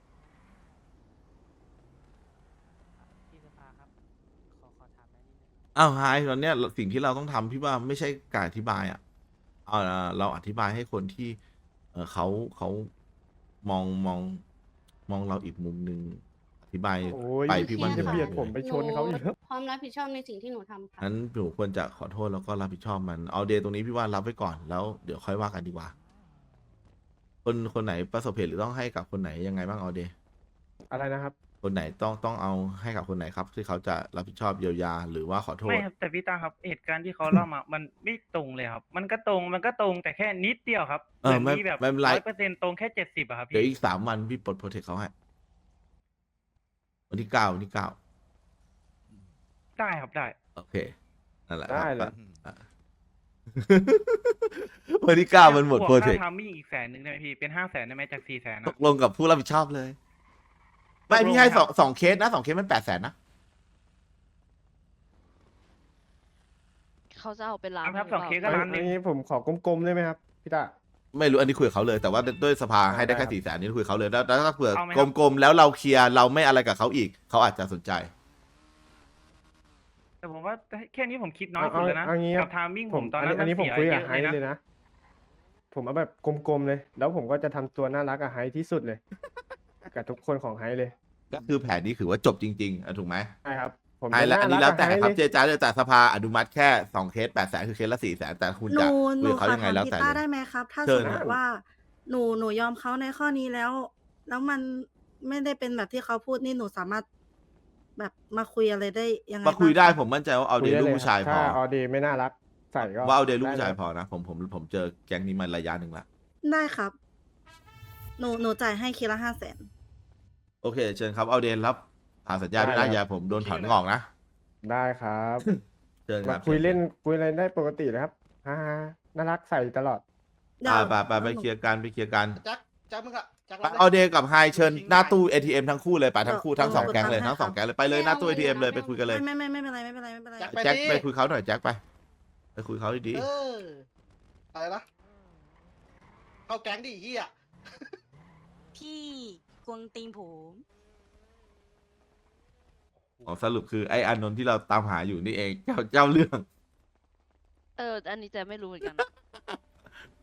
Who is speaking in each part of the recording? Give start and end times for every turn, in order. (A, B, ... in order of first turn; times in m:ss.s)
0:02.9-0:03.9 A
0:04.5-0:05.6 A
0:05.7-0:09.0 B
0:09.7-0:11.4 B
0:11.9-0:12.9 B
0:13.6-0:14.4 B
0:15.1-0:18.5 B
0:17.1-0:19.3 C
0:17.5-0:21.0 D
0:21.0-0:25.9 B
0:27.4-0:30.1 B
0:30.9-0:31.3 C
0:31.6-0:35.8 B
0:35.6-0:43.7 E
0:41.2-0:42.2 B
0:43.5-0:45.1 B
0:47.1-0:48.0 B
0:49.8-0:50.4 E
0:50.6-0:50.9 B
0:51.5-0:52.6 B
0:51.7-0:52.1 C
0:53.5-0:56.2 B
0:55.4-0:58.7 E
0:58.6-1:00.0 B
1:01.1-1:01.7 E
1:01.1-1:03.1 B
1:07.1-1:08.6 F
1:07.8-1:08.9 E
1:08.4-1:10.7 C
1:11.1-1:18.1 B
1:12.9-1:13.3 C
1:14.7-1:15.1 E
1:20.2-1:24.4 E
1:21.6-1:24.6 C
1:25.7-1:29.0 C
1:29.9-1:30.9 C
1:31.3-1:33.3 B
1:33.4-1:35.2 C
1:34.1-1:40.2 B
1:38.7-1:47.0 G
1:40.8-1:41.4 B
1:41.0-1:41.3 C
1:48.0-1:50.0 G
1:49.4-1:51.6 B
1:50.6-1:53.8 C
1:52.8-1:56.0 B
1:56.4-1:56.9 G
1:58.2-1:59.7 G
2:00.6-2:04.1 B
2:02.6-2:03.0 C
2:03.3-2:03.8 H
2:04.6-2:05.4 C
2:05.4-2:06.8 B
2:06.2-2:10.0 C
2:10.6-2:11.5 G
2:10.6-2:12.4 B
2:12.4-2:15.2 H
2:13.6-2:19.2 B
2:16.2-2:17.6 G
2:16.8-2:17.1 H
2:17.9-2:19.0 D
2:19.0-2:20.6 G
2:20.4-2:21.1 H
2:20.5-2:21.8 B
2:22.6-2:23.2 B
2:23.1-2:23.8 H
2:24.5-2:24.8 H
2:26.5-2:27.3 H
2:28.7-2:30.6 A
2:33.2-2:36.4 B
2:37.8-2:39.1 F